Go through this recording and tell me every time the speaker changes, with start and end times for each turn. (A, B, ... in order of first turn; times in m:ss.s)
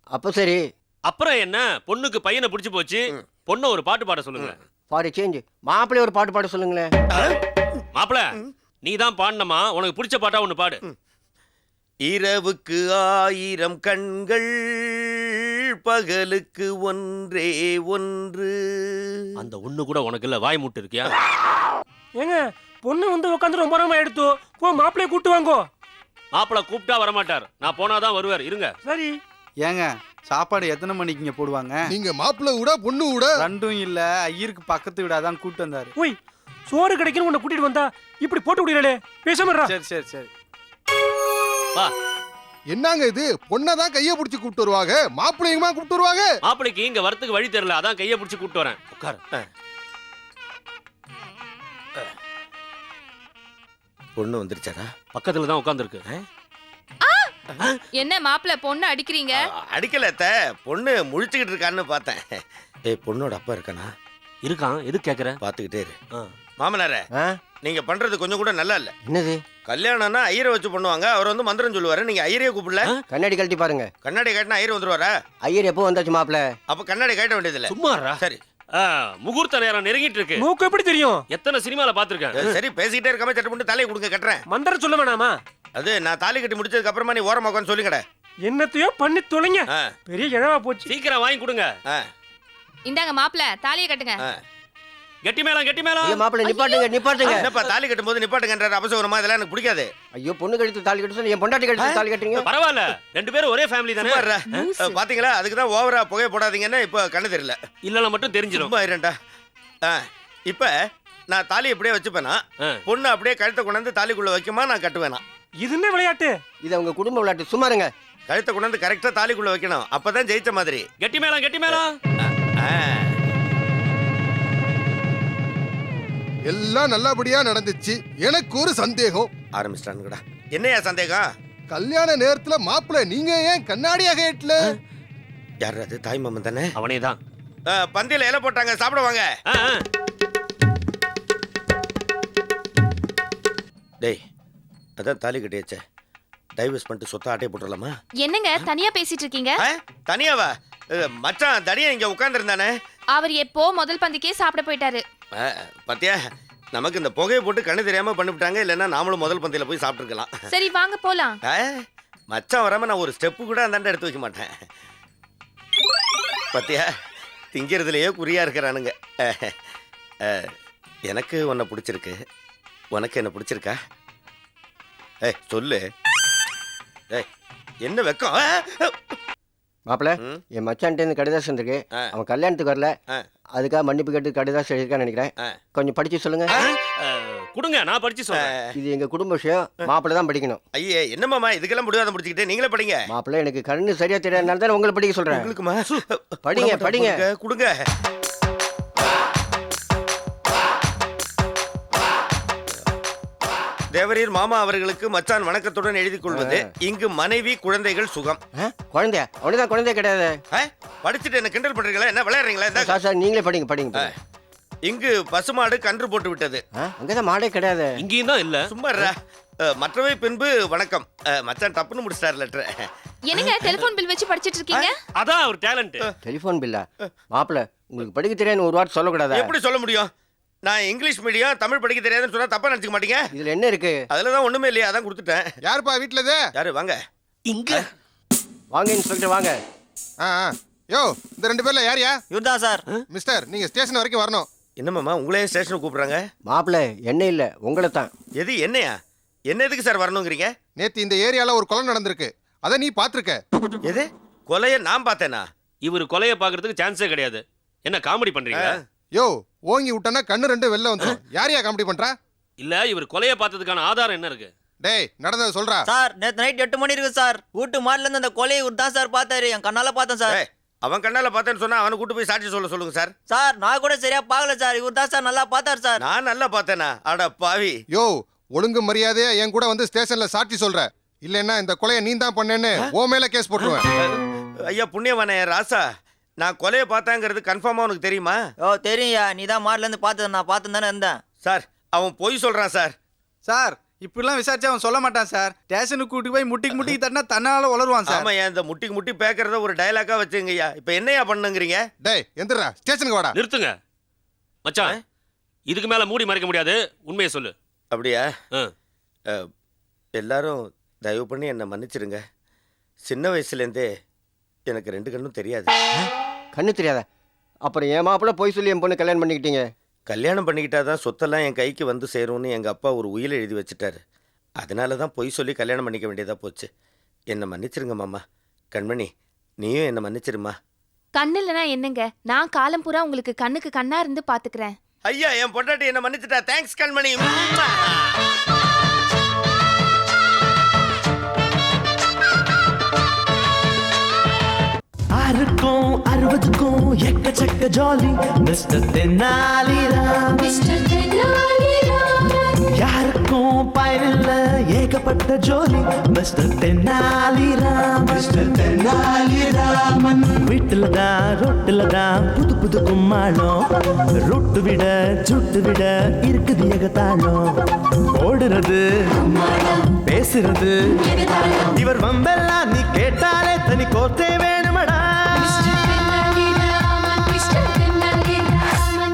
0:00.1-0:00.6 A
0:01.1-0:04.6 B
0:04.9-0:06.9 A
0:07.9-0:10.8 B
0:12.1-0:19.3 C
0:19.4-0:21.1 B
0:22.2-0:25.6 D
0:26.3-0:28.7 B
0:28.8-0:29.2 D
0:29.6-0:31.9 E
0:31.9-0:33.5 F
0:33.4-0:35.9 E
0:36.7-0:39.7 D
0:39.6-0:40.3 E
0:42.7-0:46.3 F
0:46.4-0:49.2 B
0:54.2-0:54.9 C
0:55.1-0:56.0 B
0:57.0-0:57.3 G
0:57.9-0:59.3 G
0:59.4-1:02.2 C
1:02.8-1:03.9 C
1:04.4-1:05.4 B
1:05.4-1:06.0 C
1:06.6-1:07.0 C
1:07.6-1:08.9 C
1:09.0-1:09.4 A
1:09.6-1:12.9 C
1:13.1-1:13.9 A
1:14.0-1:15.1 C
1:15.4-1:16.5 A
1:16.7-1:18.4 C
1:17.7-1:18.2 B
1:18.8-1:20.4 B
1:20.4-1:21.2 D
1:21.3-1:22.5 B
1:22.3-1:24.4 C
1:24.5-1:25.4 D
1:25.8-1:28.0 C
1:28.5-1:30.9 D
1:30.8-1:31.7 B
1:32.8-1:34.2 G
1:35.2-1:36.2 B
1:36.0-1:37.4 A
1:36.4-1:37.1 G
1:37.2-1:39.9 C
1:37.4-1:37.7 B
1:40.1-1:42.5 A
1:42.4-1:44.7 B
1:44.0-1:47.6 C
1:44.5-1:45.0 G
1:47.8-1:48.7 B
1:48.5-1:49.1 C
1:49.9-1:50.7 C
1:51.3-1:55.2 C
1:55.6-1:56.4 D
1:56.6-1:57.9 A
1:58.3-2:00.9 C
2:01.0-2:01.9 B
2:01.7-2:03.1 C
2:06.5-2:09.3 F
2:09.6-2:11.2 C
2:11.7-2:14.8 F
2:15.6-2:16.7 C
2:16.8-2:17.2 B
2:17.7-2:19.2 C
2:19.5-2:19.8 B
2:25.0-2:25.8 C
2:26.6-2:27.9 C
2:28.2-2:29.6 G
2:29.6-2:32.7 C
2:33.2-2:35.0 G
2:35.4-2:36.2 C
2:36.7-2:40.3 C
2:40.5-2:41.4 G
2:42.3-2:44.5 C
2:46.5-2:46.9 C
2:47.5-2:49.5 C
2:51.1-2:52.2 C
2:52.9-2:53.8 C
2:55.2-2:55.8 C
2:57.8-2:58.9 C
2:59.9-3:02.9 A
3:03.6-3:06.6 A
3:06.6-3:08.5 B
3:08.3-3:08.7 C
3:08.7-3:10.6 A
3:10.7-3:13.0 C
3:13.1-3:15.5 A
3:15.3-3:17.8 C
3:16.4-3:17.2 A
3:23.9-3:28.4 C
3:26.3-3:26.7 A
3:28.6-3:30.4 A
3:30.5-3:33.0 C
3:32.7-3:34.1 A
3:34.8-3:36.6 C
3:36.8-3:38.0 A
3:38.0-3:38.6 B
3:38.7-3:39.1 C
3:39.6-3:42.9 C
3:43.2-3:44.9 G
3:43.4-3:43.8 B
3:45.1-3:46.0 B
3:46.2-3:49.5 A
3:49.3-3:50.1 C
3:50.6-3:53.2 C
3:53.3-3:54.0 A
3:54.1-3:55.5 C
3:55.6-3:56.4 F
3:56.6-3:57.0 C
3:57.5-3:57.8 B
3:58.7-3:59.6 A
4:00.2-4:02.2 F
4:02.3-4:02.8 H
4:03.1-4:04.5 F
4:04.8-4:06.2 C
4:06.4-4:08.1 A
4:08.4-4:08.9 C
4:09.5-4:10.5 C
4:10.8-4:13.4 F
4:13.8-4:15.4 C
4:15.8-4:18.8 B
4:18.5-4:18.8 C
4:19.1-4:22.2 F
4:22.6-4:24.5 B
4:24.8-4:25.9 F
4:25.9-4:30.4 H
4:30.3-4:33.1 C
4:33.3-4:36.0 H
4:36.0-4:37.8 C
4:37.9-4:43.8 F
4:43.9-4:45.8 C
4:46.4-4:48.4 C
4:48.6-4:51.2 H
4:51.4-4:52.9 C
4:53.4-4:58.3 E
4:58.0-5:01.8 C
5:02.0-5:03.4 F
5:03.3-5:03.7 B
5:04.6-5:04.9 B
5:05.7-5:07.5 B
5:07.9-5:08.2 C
5:10.2-5:12.2 C
5:13.0-5:13.8 C
5:14.7-5:15.7 C
5:16.0-5:17.0 A
5:17.6-5:19.7 A
5:20.1-5:24.0 C
5:24.6-5:26.7 C
5:27.3-5:28.2 C
5:28.7-5:29.1 C
5:29.6-5:30.5 C
5:31.2-5:34.7 G
5:35.1-5:38.2 C
5:45.2-5:50.7 I
5:50.6-5:52.0 G
5:52.8-6:03.6 I
6:04.2-6:07.4 I
6:08.1-6:15.8 I
6:16.9-6:18.8 G